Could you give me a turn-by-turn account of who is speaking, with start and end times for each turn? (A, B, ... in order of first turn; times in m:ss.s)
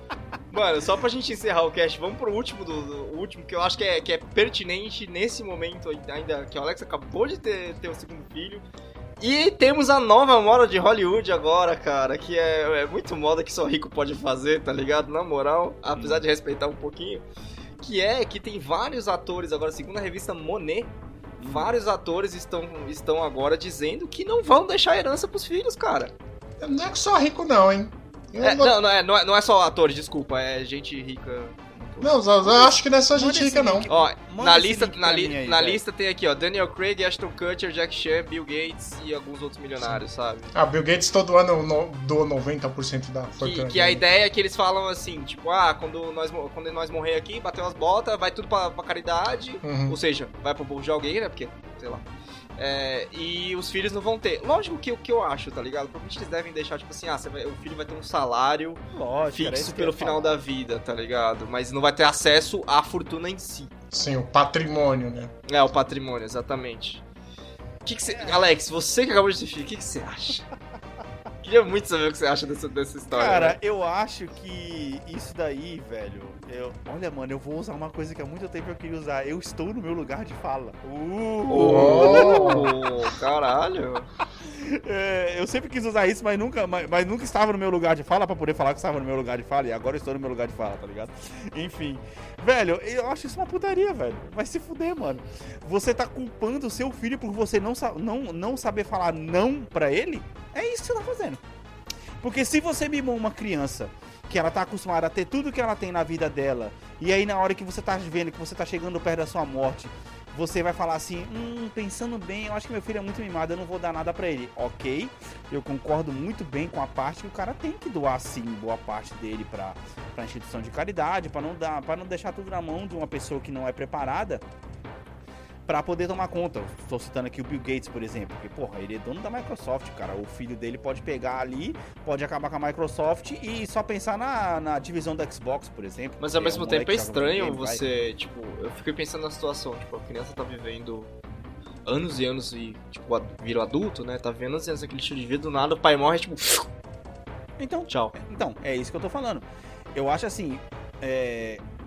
0:00.5-0:08.6 A
0:09.2-0:17.2 A
0:16.0-0:16.2 B
0:17.8-0:26.1 A
0:21.4-0:21.7 B
0:26.6-0:28.8 C
0:28.4-0:32.7 A
0:32.0-0:33.9 C
0:33.1-0:35.8 B
0:33.9-0:40.5 A
0:40.5-0:44.0 C
0:43.4-0:52.1 A
0:49.6-0:50.0 C
0:52.6-0:58.8 A
0:58.9-1:00.4 B
0:59.3-1:03.7 A
1:03.9-1:05.3 C
1:05.5-1:07.0 A
1:07.8-1:10.4 A
1:08.1-1:08.4 B
1:11.4-1:13.6 A
1:13.1-1:22.7 B
1:21.5-1:24.1 A
1:21.5-1:22.7 C
1:24.4-1:41.4 B
1:42.2-2:04.4 B
2:05.7-2:17.8 B
2:16.2-2:21.1 A
2:21.9-2:26.7 A
2:27.6-2:31.6 B
2:27.9-2:28.1 A